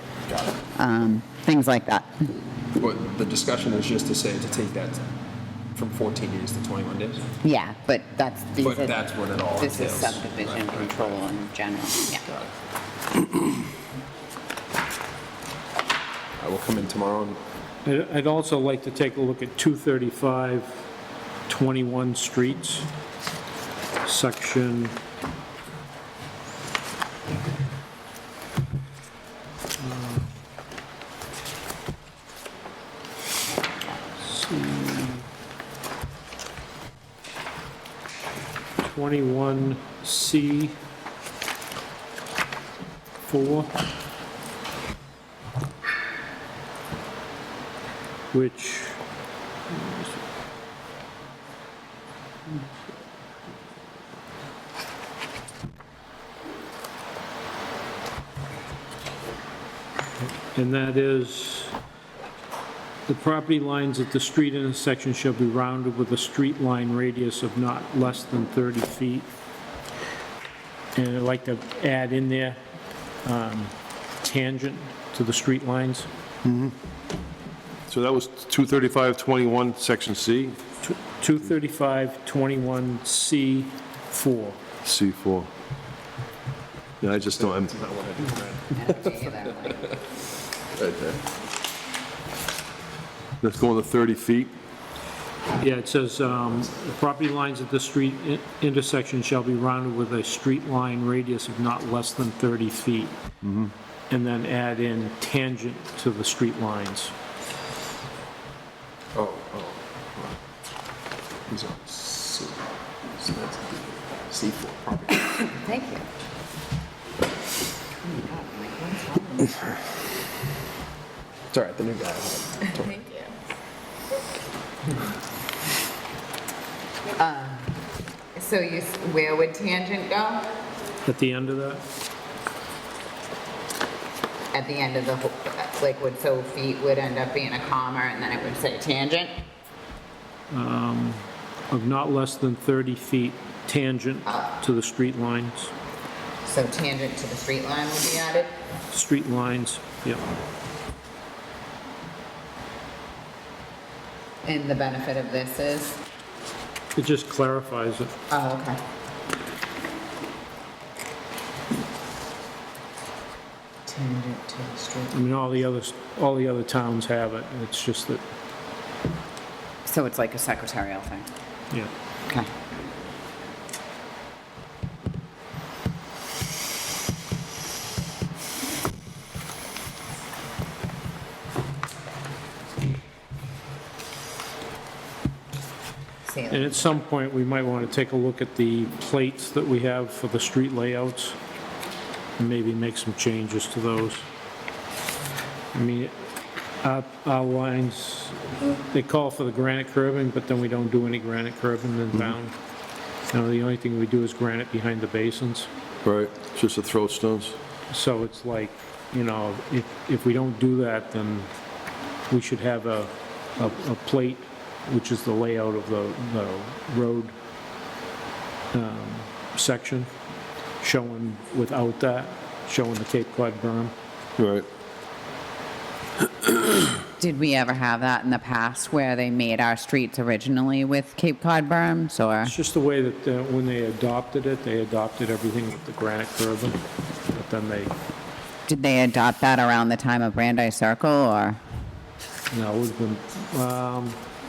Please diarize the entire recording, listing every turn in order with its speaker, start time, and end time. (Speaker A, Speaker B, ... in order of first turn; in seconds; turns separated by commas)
Speaker A: 0.3-0.6, Speaker B: 0.8-2.3, Speaker A: 2.8-5.1, Speaker A: 5.8-7.3, Speaker B: 7.4-9.0, Speaker A: 8.6-11.2, Speaker B: 9.6-12.2, Speaker A: 12.1-12.5, Speaker A: 16.4-17.4, Speaker C: 17.9-20.9, Speaker C: 21.5-22.9, Speaker C: 24.0-25.0, Speaker C: 29.8-30.3, Speaker C: 34.1-35.2, Speaker C: 38.8-40.8, Speaker C: 43.3-43.7, Speaker C: 48.3-49.0, Speaker C: 49.7-50.1, Speaker C: 60.2-61.8, Speaker C: 63.1-69.3, Speaker C: 71.0-72.6, Speaker C: 73.2-76.1, Speaker D: 76.4-76.8, Speaker D: 77.9-80.6, Speaker C: 80.8-84.6, Speaker D: 84.8-85.5, Speaker D: 87.0-87.7, Speaker A: 87.4-89.8, Speaker B: 88.7-89.9, Speaker A: 90.7-91.2, Speaker D: 93.4-94.5, Speaker C: 95.5-103.2, Speaker D: 103.4-103.7, Speaker C: 104.1-107.1, Speaker A: 109.2-110.4, Speaker A: 111.5-115.6, Speaker B: 115.5-116.1, Speaker B: 118.0-119.8, Speaker A: 121.5-123.0, Speaker B: 122.8-123.3, Speaker B: 127.2-127.8, Speaker B: 128.3-130.6, Speaker C: 131.1-131.8, Speaker B: 134.5-139.4, Speaker C: 140.5-145.7, Speaker B: 144.3-144.6, Speaker B: 146.4-148.5, Speaker C: 148.9-150.2, Speaker B: 154.4-156.0, Speaker C: 156.9-158.1, Speaker B: 158.3-158.8, Speaker B: 163.9-165.2, Speaker C: 165.1-168.2, Speaker B: 169.9-171.3, Speaker B: 186.3-186.9, Speaker C: 186.5-191.4, Speaker C: 192.4-194.3, Speaker C: 195.7-196.1, Speaker C: 196.8-202.6, Speaker C: 203.3-205.7, Speaker D: 206.0-207.6, Speaker C: 207.9-211.5, Speaker C: 212.3-217.3, Speaker C: 218.7-220.1, Speaker C: 220.8-223.9, Speaker D: 224.4-224.7, Speaker B: 227.2-232.6, Speaker C: 232.4-238.0, Speaker B: 238.7-241.6, Speaker C: 242.5-244.2